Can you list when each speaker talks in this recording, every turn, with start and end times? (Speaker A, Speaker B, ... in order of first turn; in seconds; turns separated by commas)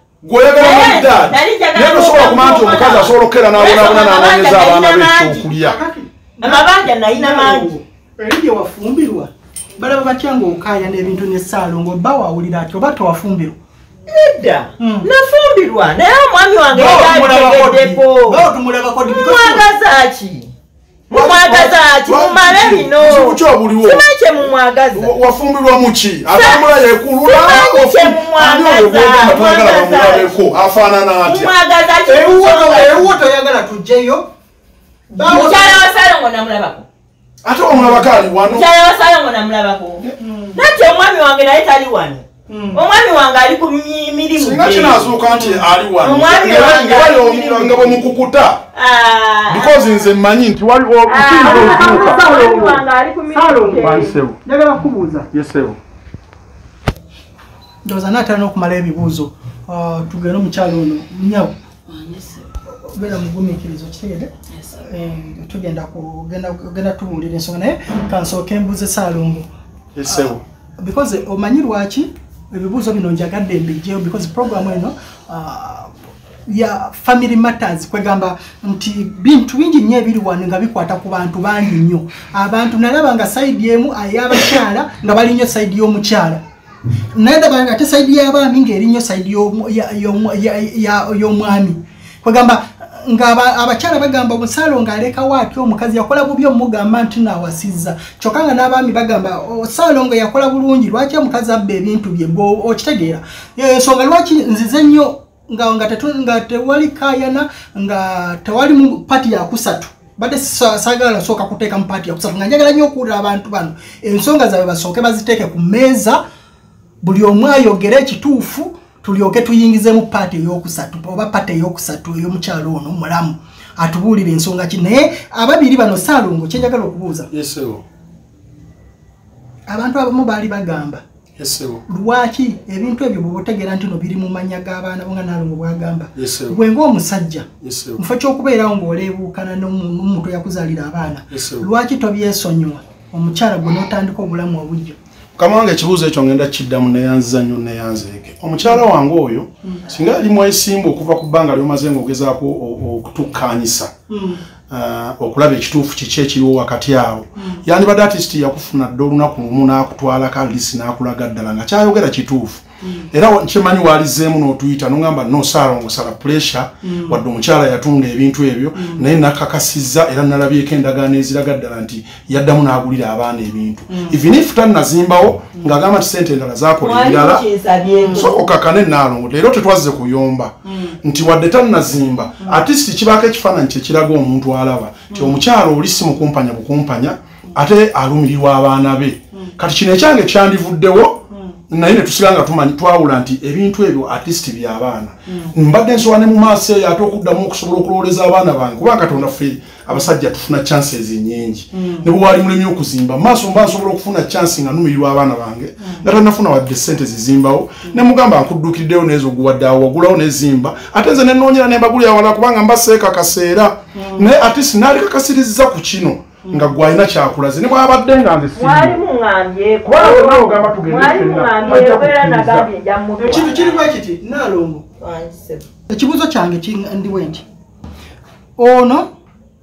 Speaker A: 0.2-5.8, Speaker B: 0.6-5.5, Speaker C: 5.5-13.6, Speaker B: 6.4-7.7, Speaker B: 14.1-18.5, Speaker C: 14.8-15.1, Speaker C: 16.7-19.7, Speaker B: 19.1-20.5, Speaker B: 21.1-25.1, Speaker A: 21.1-24.1, Speaker A: 24.9-31.5, Speaker B: 26.3-26.7, Speaker B: 27.2-30.3, Speaker B: 31.2-33.1, Speaker C: 32.1-34.3, Speaker C: 35.1-35.8, Speaker B: 35.2-36.9, Speaker A: 37.4-38.7, Speaker C: 37.7-38.1, Speaker B: 38.5-45.1, Speaker C: 40.2-40.6, Speaker C: 42.5-42.8, Speaker A: 44.4-48.6, Speaker C: 45.2-45.8, Speaker B: 46.0-48.0, Speaker B: 48.8-50.0, Speaker A: 49.5-52.3, Speaker B: 51.1-54.1, Speaker C: 51.4-55.3, Speaker A: 53.8-54.4, Speaker A: 55.3-55.8, Speaker C: 57.9-61.5, Speaker C: 62.8-69.5, Speaker A: 70.0-70.4, Speaker C: 70.1-75.9, Speaker C: 76.5-86.4, Speaker C: 87.1-116.2, Speaker C: 117.0-127.3, Speaker A: 127.3-127.8, Speaker C: 129.7-131.0, Speaker A: 131.4-131.8, Speaker C: 131.9-145.0, Speaker A: 136.2-136.6, Speaker A: 137.6-138.0, Speaker A: 141.3-141.7, Speaker A: 145.4-153.9, Speaker C: 154.1-154.4, Speaker A: 154.7-177.4, Speaker C: 157.4-157.6, Speaker C: 162.8-163.1, Speaker C: 166.8-167.2, Speaker C: 168.8-169.1, Speaker C: 173.9-174.2, Speaker B: 176.8-178.5, Speaker C: 177.8-178.3, Speaker A: 178.1-219.0, Speaker C: 180.7-180.9, Speaker C: 185.1-185.4, Speaker C: 195.3-195.5, Speaker C: 201.7-202.1, Speaker C: 213.9-214.3, Speaker C: 216.4-216.7, Speaker B: 218.6-223.8, Speaker A: 219.8-222.7, Speaker C: 223.2-224.8, Speaker B: 225.0-225.7, Speaker C: 225.9-227.4, Speaker C: 228.6-229.1